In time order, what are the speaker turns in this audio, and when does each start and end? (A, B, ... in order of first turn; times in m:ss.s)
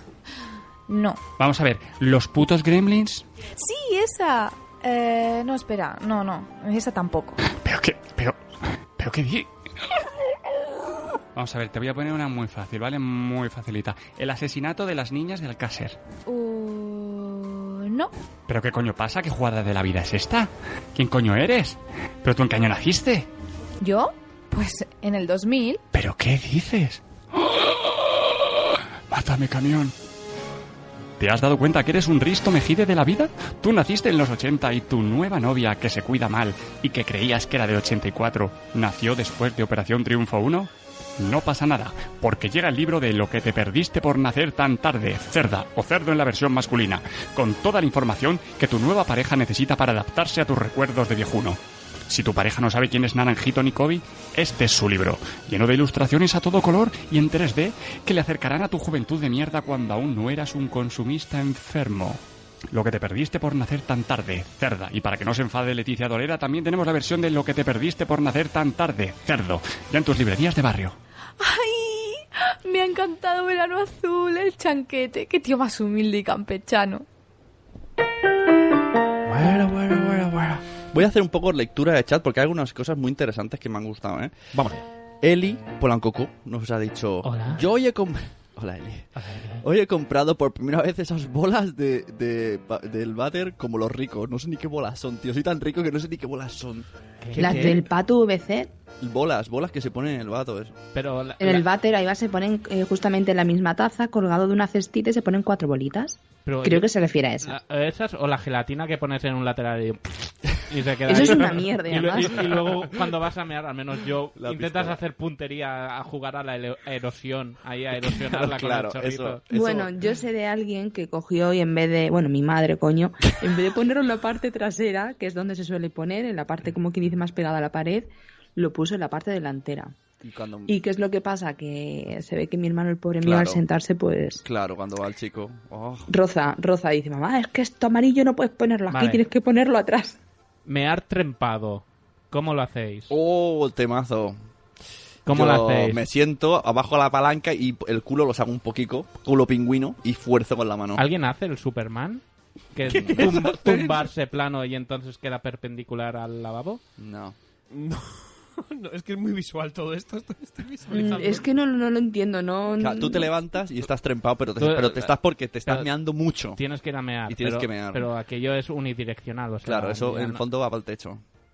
0:00.9-0:01.2 A
0:01.4-0:03.2 B
0:03.6-0:07.4 A
0:07.4-0:08.4 B
0:09.0-0:09.5 B
0:11.3-0:16.0 B
0:16.3-0:18.1 A
0:18.5-0:23.3 B
0:23.8-0:25.8 A
0:25.9-0:27.7 B
0:29.1-0:29.9 B
0:31.2-0:51.6 B
0:52.1-1:02.2 B
1:02.7-1:11.0 B
1:11.4-1:17.0 A
1:19.3-1:24.3 C
1:24.5-1:24.8 D
1:25.2-1:36.8 C
1:27.2-1:27.6 E
1:29.2-1:29.6 E
1:37.2-1:37.8 E
1:37.4-1:38.7 F
1:37.4-1:37.8 D
1:39.0-1:40.7 C
1:40.9-1:41.6 E
1:41.4-1:47.6 F
1:46.4-1:46.9 E
1:47.4-1:59.4 E
1:51.0-1:52.6 F
1:52.4-1:53.0 C
1:54.4-1:55.0 C
1:58.0-1:59.9 C
1:59.5-2:09.9 F
2:10.2-2:10.7 C
2:10.7-2:14.4 F
2:13.2-2:13.6 C
2:14.4-2:16.1 C
2:16.1-2:20.2 F
2:18.9-2:19.2 E
2:20.6-2:23.1 E
2:23.1-2:24.4 C
2:25.2-2:26.0 E
2:25.3-2:31.0 C
2:31.0-2:32.2 E
2:32.7-2:36.8 E
2:32.8-2:33.9 D
2:32.8-2:34.0 C
2:37.0-2:37.4 C
2:37.7-2:41.4 D
2:40.9-2:41.4 E
2:40.9-2:43.3 F
2:42.8-2:46.6 C
2:44.6-2:45.1 E
2:46.6-2:50.4 E
2:47.3-2:48.1 C
2:49.6-2:51.2 C